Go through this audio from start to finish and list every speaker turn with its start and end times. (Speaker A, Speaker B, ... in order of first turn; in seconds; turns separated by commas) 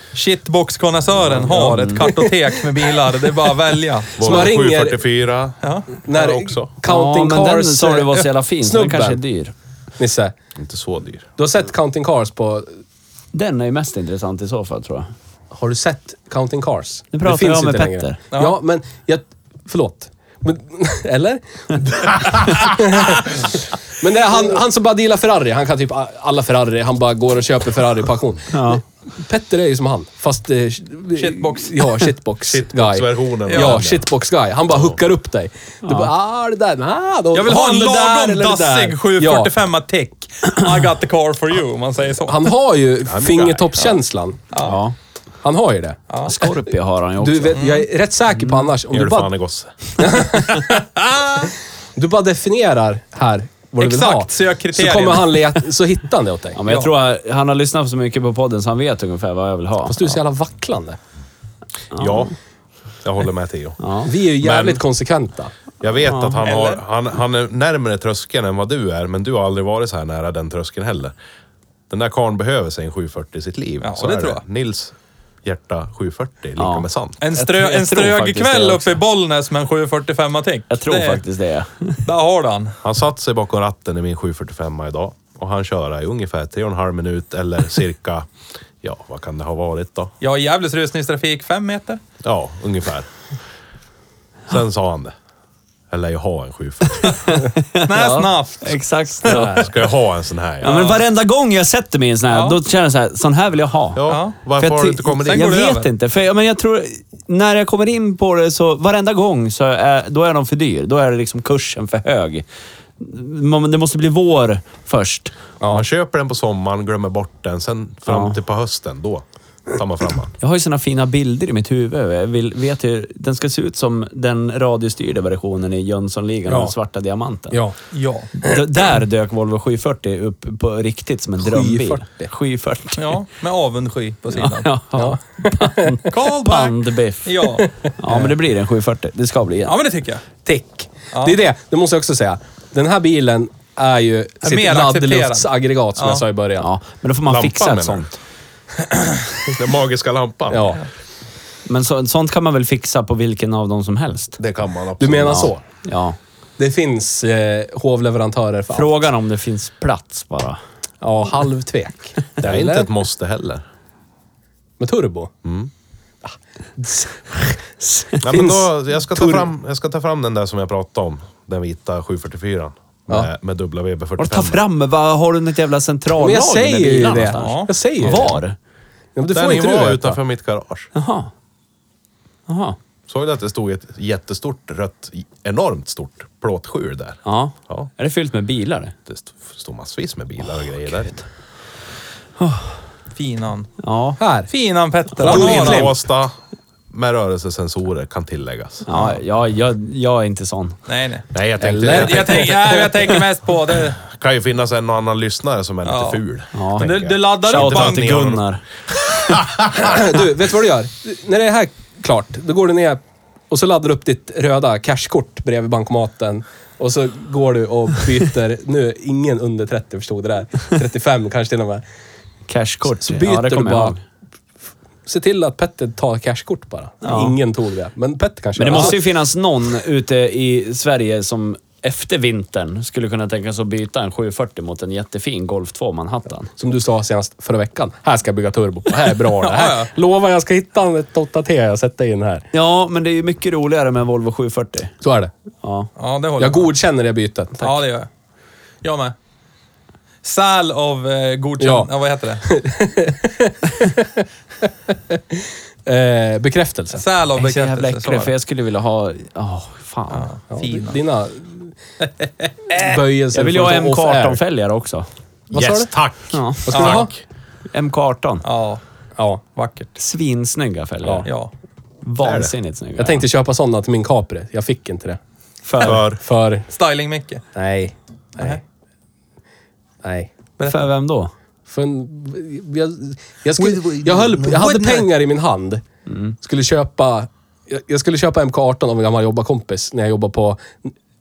Speaker A: 0.1-4.2, Speaker B: 1.3-2.1, Speaker C: 2.0-2.3, Speaker D: 4.2-6.7, Speaker C: 4.2-5.0, Speaker A: 5.6-5.9, Speaker C: 6.0-9.2, Speaker B: 6.8-9.5, Speaker C: 10.0-10.3, Speaker D: 10.6-11.3, Speaker C: 11.4-12.7, Speaker B: 13.3-15.1, Speaker C: 15.5-39.5, Speaker B: 17.1-18.2, Speaker B: 28.5-28.8, Speaker A: 31.1-32.0, Speaker D: 32.5-34.0, Speaker A: 33.5-33.8, Speaker D: 34.7-35.0, Speaker B: 35.8-36.1, Speaker A: 37.3-42.4, Speaker C: 42.2-44.5, Speaker D: 43.1-43.8, Speaker A: 44.5-44.8, Speaker B: 44.6-44.9, Speaker C: 45.4-46.5, Speaker B: 46.2-47.6, Speaker C: 47.2-49.3, Speaker A: 47.5-47.9, Speaker D: 48.9-50.2, Speaker C: 50.0-50.8, Speaker A: 50.5-51.5, Speaker C: 51.4-56.6, Speaker A: 53.8-55.4, Speaker B: 56.5-60.2, Speaker A: 56.6-56.9, Speaker C: 59.9-61.0, Speaker D: 61.9-62.3, Speaker B: 61.9-62.3, Speaker D: 63.0-63.8, Speaker B: 63.8-64.1, Speaker C: 64.0-65.5, Speaker D: 64.4-64.8, Speaker D: 65.8-71.1, Speaker B: 66.0-66.4, Speaker A: 66.4-66.8, Speaker D: 71.9-74.9, Speaker A: 73.8-74.4, Speaker D: 75.4-77.2, Speaker B: 76.6-79.0, Speaker A: 77.2-81.2, Speaker B: 80.7-82.0, Speaker A: 82.0-82.8, Speaker D: 82.8-88.3, Speaker D: 88.8-90.1, Speaker A: 90.2-92.0, Speaker D: 92.2-93.1, Speaker D: 94.5-95.1, Speaker D: 95.9-97.4, Speaker B: 97.0-99.7, Speaker A: 97.8-99.5, Speaker C: 98.0-98.2, Speaker C: 99.2-99.7, Speaker D: 99.5-100.7, Speaker B: 100.6-112.4, Speaker A: 100.6-101.0, Speaker A: 102.3-102.6, Speaker D: 103.9-105.5, Speaker A: 104.1-104.4, Speaker A: 105.2-105.9, Speaker B: 113.0-115.3, Speaker D: 115.7-120.3, Speaker B: 118.1-118.4, Speaker B: 120.4-127.6, Speaker C: 126.5-126.7, Speaker A: 127.9-128.3, Speaker B: 128.4-133.2, Speaker C: 131.4-132.3, Speaker A: 133.0-134.7, Speaker B: 134.3-139.7, Speaker C: 134.9-136.1, Speaker A: 136.1-137.7, Speaker C: 137.8-138.3, Speaker A: 139.6-140.2, Speaker C: 140.4-146.7, Speaker A: 141.1-141.4, Speaker A: 144.4-146.2, Speaker B: 146.6-148.2, Speaker D: 147.2-148.1, Speaker D: 149.5-150.8, Speaker C: 150.5-150.8, Speaker B: 151.7-154.4, Speaker D: 154.4-155.5, Speaker C: 155.0-155.7, Speaker B: 155.3-156.2, Speaker C: 156.6-158.9, Speaker B: 158.7-160.6, Speaker C: 161.0-162.9, Speaker D: 162.4-163.6, Speaker C: 164.8-165.3, Speaker D: 165.4-165.7, Speaker C: 166.2-169.5, Speaker D: 168.2-174.6, Speaker B: 174.2-178.6, Speaker C: 176.2-178.4, Speaker A: 177.4-177.7, Speaker C: 179.2-180.2, Speaker D: 179.3-180.9, Speaker B: 180.9-181.3, Speaker B: 182.5-182.8, Speaker D: 183.1-187.9, Speaker B: 187.2-188.9, Speaker D: 189.1-191.2, Speaker B: 192.4-192.8, Speaker A: 193.1-193.7, Speaker B: 193.8-194.2, Speaker C: 194.2-194.5, Speaker A: 194.5-195.9, Speaker C: 195.1-196.0, Speaker D: 195.2-196.3, Speaker D: 196.9-198.9, Speaker B: 198.8-200.8, Speaker A: 200.9-201.2, Speaker D: 201.3-202.5, Speaker C: 201.6-203.2, Speaker A: 201.9-204.0, Speaker D: 204.0-208.4, Speaker A: 205.8-206.2, Speaker B: 206.5-208.6, Speaker A: 206.8-208.1, Speaker D: 209.3-209.9, Speaker C: 209.7-221.8, Speaker B: 222.5-224.0, Speaker C: 222.8-224.0, Speaker C: 225.1-229.0, Speaker B: 227.0-227.3, Speaker B: 228.6-236.5, Speaker C: 236.6-242.4, Speaker A: 239.4-239.9, Speaker B: 242.5-244.9, Speaker C: 245.0-245.3, Speaker B: 245.6-245.9, Speaker A: 246.0-246.7, Speaker C: 246.4-247.8, Speaker A: 247.6-248.1, Speaker A: 248.8-249.1, Speaker A: 250.2-252.4, Speaker C: 251.6-251.9, Speaker C: 252.4-254.2, Speaker C: 254.9-257.0, Speaker A: 256.9-258.3, Speaker B: 257.4-260.3, Speaker A: 260.1-261.0, Speaker C: 260.5-261.7, Speaker C: 262.7-264.4, Speaker B: 263.3-265.1, Speaker C: 265.5-265.9, Speaker D: 265.5-267.2, Speaker B: 266.3-266.9, Speaker C: 266.6-267.1, Speaker A: 266.7-267.1, Speaker B: 267.7-268.4, Speaker A: 268.4-268.8, Speaker A: 269.5-269.9, Speaker B: 269.9-271.3, Speaker A: 271.2-271.5, Speaker B: 272.0-273.2, Speaker D: 272.2-272.5, Speaker C: 273.0-275.2, Speaker B: 275.6-276.0, Speaker D: 275.8-276.2, Speaker C: 275.8-276.6, Speaker A: 276.7-277.4, Speaker C: 277.5-278.6, Speaker C: 280.0-280.3, Speaker B: 280.6-281.3, Speaker C: 281.7-285.8, Speaker A: 283.6-285.1, Speaker C: 286.4-290.9